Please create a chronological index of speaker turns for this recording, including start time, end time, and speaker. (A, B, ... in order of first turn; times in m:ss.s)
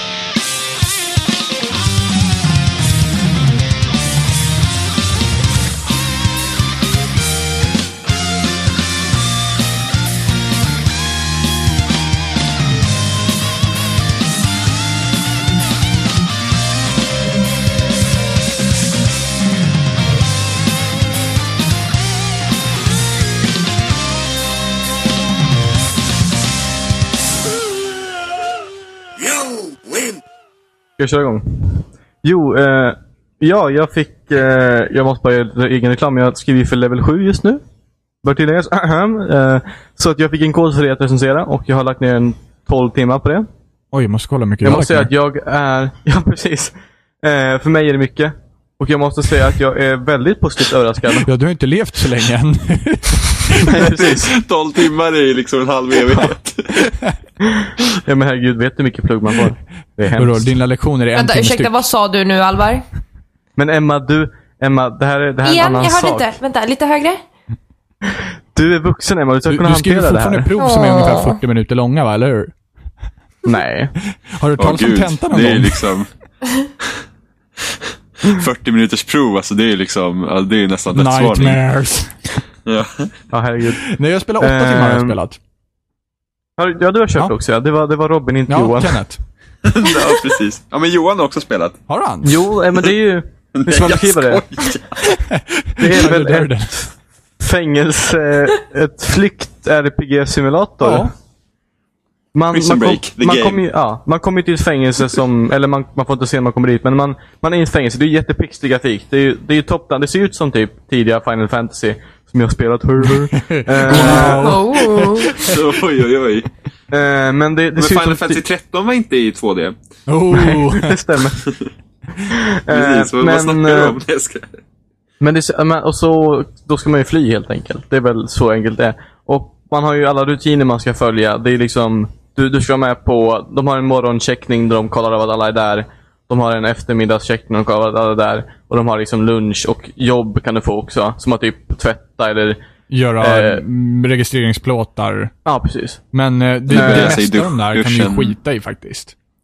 0:31.0-0:37.6 A
0:38.2-0:43.5 A
0:43.9-0:45.1 B
0:44.6-0:51.3 A
0:51.2-0:53.8 B
0:53.6-0:54.4 A
0:53.7-0:56.9 C
0:57.4-1:00.5 A
1:00.1-1:01.8 B
1:01.1-1:02.8 D
1:03.6-1:06.4 A
1:05.4-1:07.2 D
1:08.5-1:10.5 A
1:09.5-1:12.5 B
1:10.6-1:11.4 D
1:13.4-1:13.9 A
1:14.1-1:15.9 B
1:14.6-1:16.1 C
1:17.7-1:21.6 C
1:20.9-1:22.3 B
1:22.7-1:23.1 C
1:23.3-1:23.8 A
1:23.8-1:25.4 B
1:24.4-1:25.2 A
1:26.6-1:29.0 A
1:28.5-1:29.2 B
1:29.6-1:31.8 C
1:31.9-1:32.4 B
1:32.2-1:34.4 A
1:33.6-1:35.1 C
1:35.1-1:36.8 B
1:35.8-1:41.1 A
1:40.8-1:41.1 B
1:42.3-1:54.6 A
1:42.5-1:43.6 C
1:53.3-1:55.6 B
1:54.1-1:55.4 D
1:54.9-1:56.5 C
1:56.9-1:58.4 A
1:57.8-1:59.8 C
2:00.1-2:01.0 B
2:00.3-2:01.4 A
2:02.3-2:04.0 A
2:02.7-2:04.5 C
2:05.2-2:22.6 A
2:22.9-2:25.3 B
2:23.2-2:23.6 A
2:25.4-2:26.0 A
2:26.1-2:29.1 B
2:26.7-2:28.3 C
2:26.7-2:27.2 A